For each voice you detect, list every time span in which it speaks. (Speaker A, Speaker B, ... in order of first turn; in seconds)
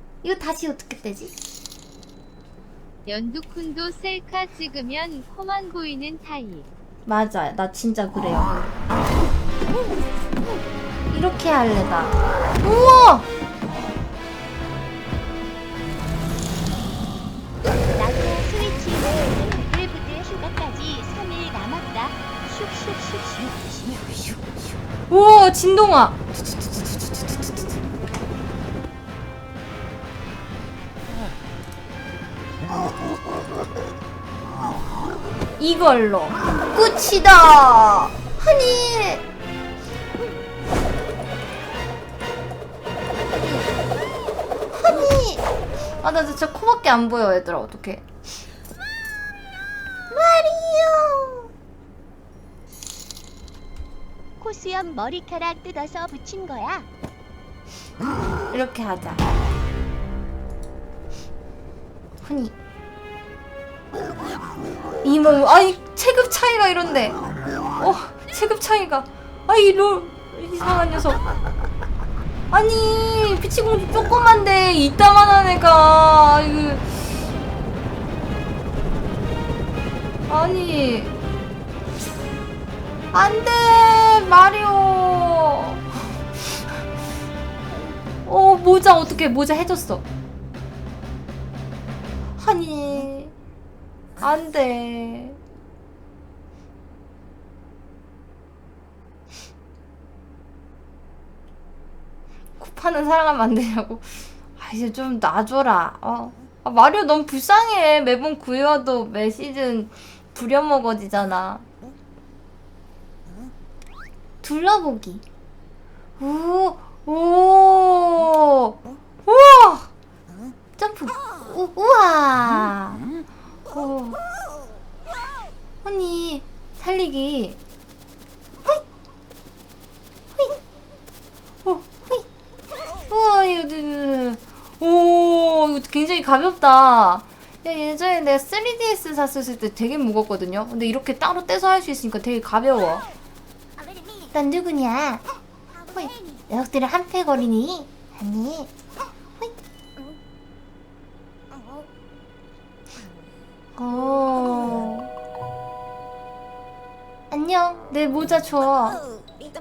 Speaker A: 0.2-1.3, 7.0-8.8, 11.1-13.3, 25.1-27.7, 35.6-39.2, 44.7-45.4, 46.0-48.0, 50.1-51.5, 58.5-59.2, 62.2-62.5, 65.0-67.2, 67.8-71.2, 72.5-77.0, 80.3-81.1, 83.1-86.0, 87.7-90.0, 92.4-93.3, 94.2-95.4, 102.6-111.7, 114.4-115.2, 116.2-119.9, 120.8-123.1, 123.7-124.2, 125.8-127.6, 131.6-132.3, 133.1-143.1, 144.3-145.2, 145.9-148.7, 153.8-155.1, 157.3-159.0
Speaker B: 3.0-6.7
Speaker C: 17.9-24.4, 54.4-56.9